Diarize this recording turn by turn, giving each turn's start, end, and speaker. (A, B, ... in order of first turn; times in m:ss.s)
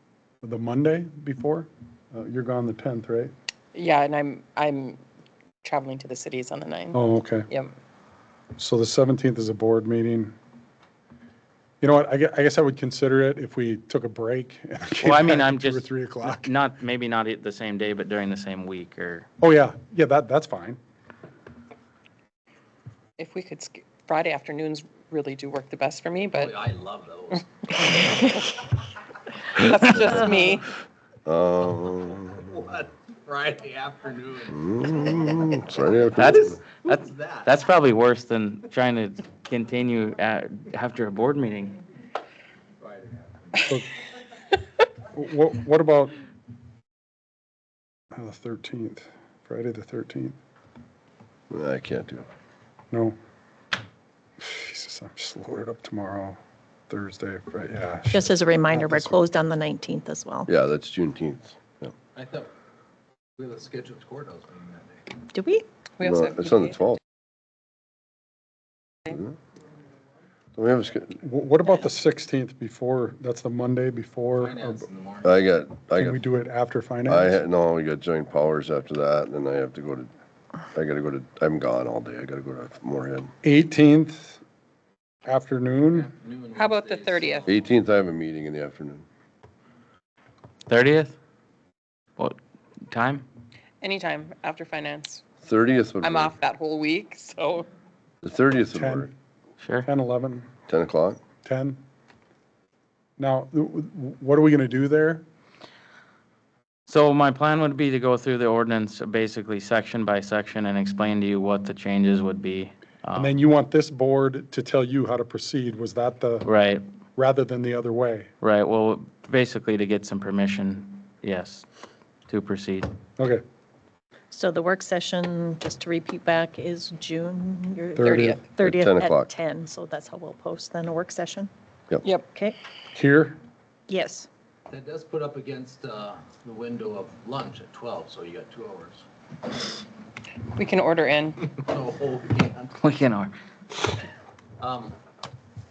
0:00.4-0:03.3 A
0:03.7-0:05.0 B
0:05.6-0:07.7 B
0:06.9-0:07.5 A
0:08.6-0:10.3 A
0:11.8-0:16.5 A
0:15.0-0:19.3 C
0:19.4-0:20.8 A
0:23.2-0:26.6 B
0:26.3-0:27.9 D
0:27.7-0:28.7 B
0:29.5-0:30.6 B
0:31.2-0:32.4 E
0:31.8-0:37.5 D
0:34.5-0:36.6 E
0:36.2-0:41.8 C
0:42.8-0:43.7 D
0:43.7-0:43.9 A
0:45.1-0:46.2 A
0:48.1-0:50.4 A
0:51.5-0:52.2 E
0:52.9-0:53.2 A
0:54.4-0:59.2 A
0:58.1-1:00.5 F
1:00.5-1:01.9 E
1:02.1-1:02.5 D
1:03.4-1:05.1 D
1:05.3-1:05.6 F
1:06.0-1:06.7 B
1:06.0-1:07.0 E
1:09.0-1:09.3 E
1:10.6-1:11.2 E
1:11.2-1:14.8 A
1:14.4-1:15.4 D
1:15.2-1:16.2 E
1:16.0-1:17.4 A
1:17.0-1:20.1 E
1:20.7-1:23.3 E
1:23.4-1:24.4 A
1:25.2-1:26.1 A
1:25.9-1:27.6 D
1:26.6-1:27.4 B
1:27.4-1:29.0 E
1:30.7-1:31.2 C
1:32.2-1:33.2 C
1:33.8-1:35.3 B
1:35.4-1:36.3 E
1:36.0-1:37.7 B
1:38.2-1:39.1 E
1:38.7-1:39.1 A
1:39.6-1:39.9 C
1:39.8-1:40.5 A
1:40.7-1:41.2 E
1:41.4-1:41.8 A
1:43.2-1:45.2 A
1:46.9-1:53.4 C
1:53.1-1:56.5 A
1:56.4-1:56.8 C
1:57.2-1:58.3 A
1:58.4-2:01.6 C
2:02.3-2:02.9 C
2:03.2-2:03.4 A
2:04.3-2:11.5 F
2:08.0-2:08.4 A
2:08.0-2:08.5 B
2:08.6-2:09.3 E
2:12.0-2:12.3 B
2:12.9-2:13.4 A
2:13.9-2:14.3 F
2:14.7-2:19.0 D
2:20.5-2:21.4 B
2:21.4-2:22.8 D
2:22.8-2:23.3 C
2:24.6-2:25.0 D